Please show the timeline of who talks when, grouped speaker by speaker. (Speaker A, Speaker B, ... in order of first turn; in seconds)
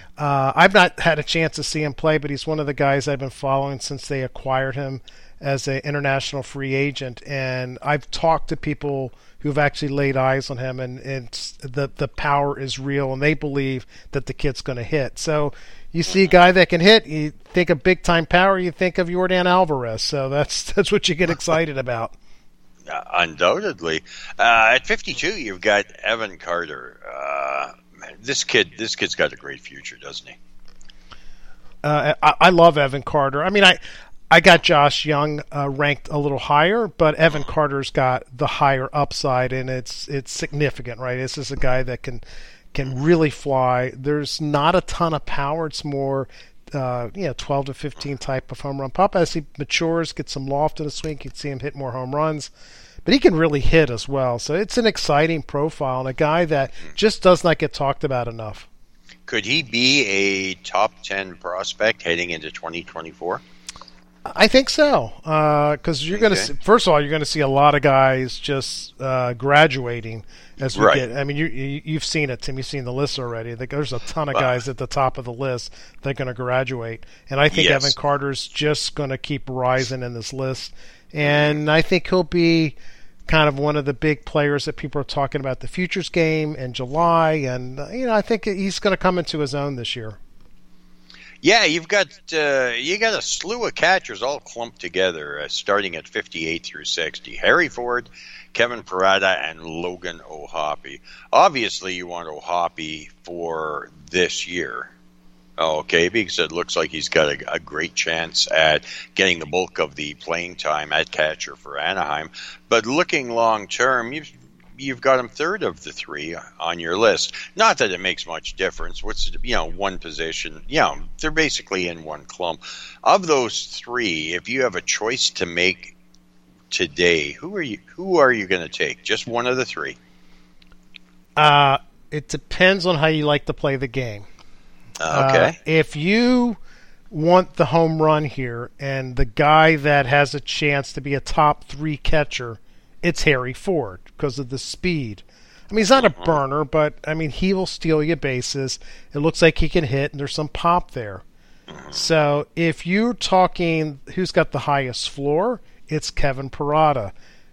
Speaker A: 0.2-22.1, 31.8-52.5, 53.0-58.7, 64.2-82.8, 83.3-90.2, 131.3-134.3, 135.1-136.6, 137.1-151.2, 151.9-157.1
Speaker B: 16.1-16.4, 22.9-30.4, 59.3-63.4, 66.1-66.5, 70.7-71.0, 77.5-77.9, 81.2-81.6, 91.4-104.9, 105.6-125.9, 126.7-130.0, 135.0-135.6, 145.9-146.4, 151.7-152.1